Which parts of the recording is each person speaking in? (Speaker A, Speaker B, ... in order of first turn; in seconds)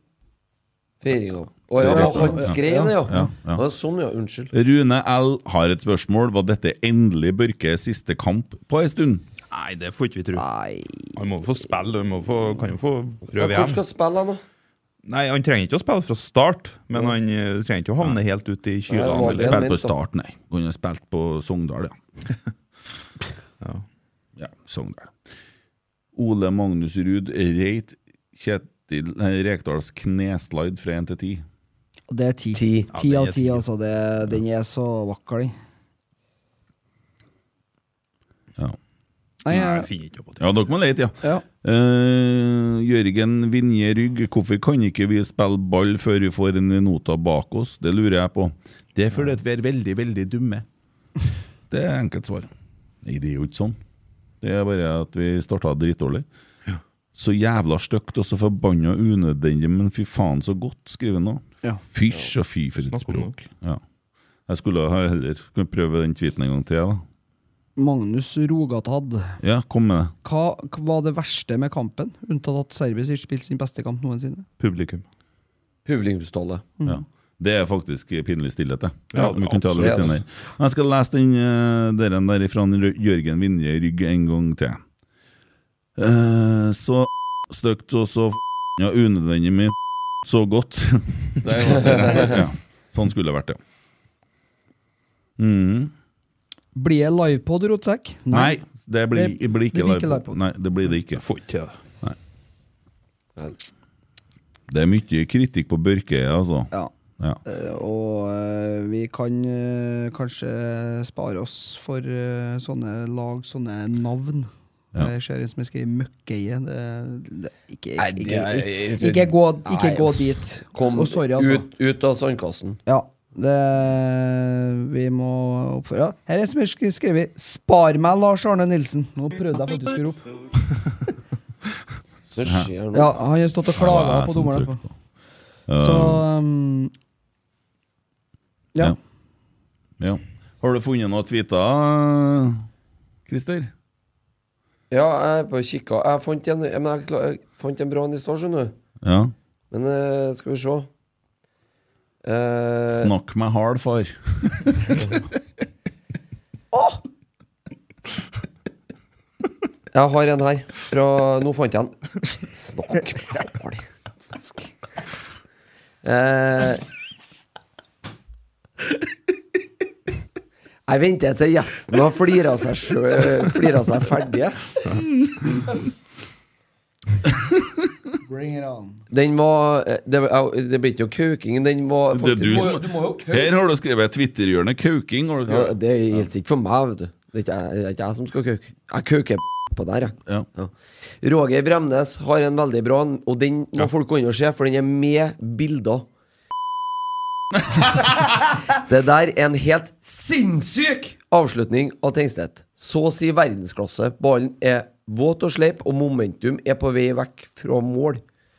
Speaker A: 1.0-4.5, 13.3-14.4, 18.9-20.0, 32.5-32.9, 75.8-76.7, 79.2-80.2, 91.9-92.4, 118.0-122.8, 132.3-133.2, 144.9-148.8, 149.7-150.9, 152.2-153.1, 159.9-164.7, 166.0-166.8, 170.9-174.6, 179.1-182.8, 185.5-196.1, 198.7-208.2
Speaker B: 1.8-3.6, 4.5-9.2, 19.0-22.0, 24.4-25.1, 26.1-31.4, 40.4-50.6, 51.7-52.5, 53.0-53.8, 54.4-56.2, 57.1-63.8, 64.5-67.0, 69.4-70.1, 76.8-84.8, 86.0-93.6, 95.4-95.9, 98.3-101.2, 104.7-107.4, 132.3-132.7, 133.8-134.9, 135.7-136.2, 140.0-142.7, 143.3-143.7, 149.0-149.3, 152.9-155.1, 182.1-186.2
Speaker C: 1.8-3.3, 10.4-11.1, 32.1-35.5, 39.4-39.9, 67.8-69.4, 70.2-74.5, 96.8-98.6, 99.1-100.4, 107.5-121.7, 122.9-130.3, 132.9-134.8, 135.8-136.9, 156.7-157.0, 178.2-179.0, 182.4-183.6
Speaker D: 9.5-10.5, 11.1-13.8, 15.1-19.6, 32.9-33.6, 39.5-40.5, 62.9-63.3, 74.6-75.0, 79.1-80.2, 101.2-101.8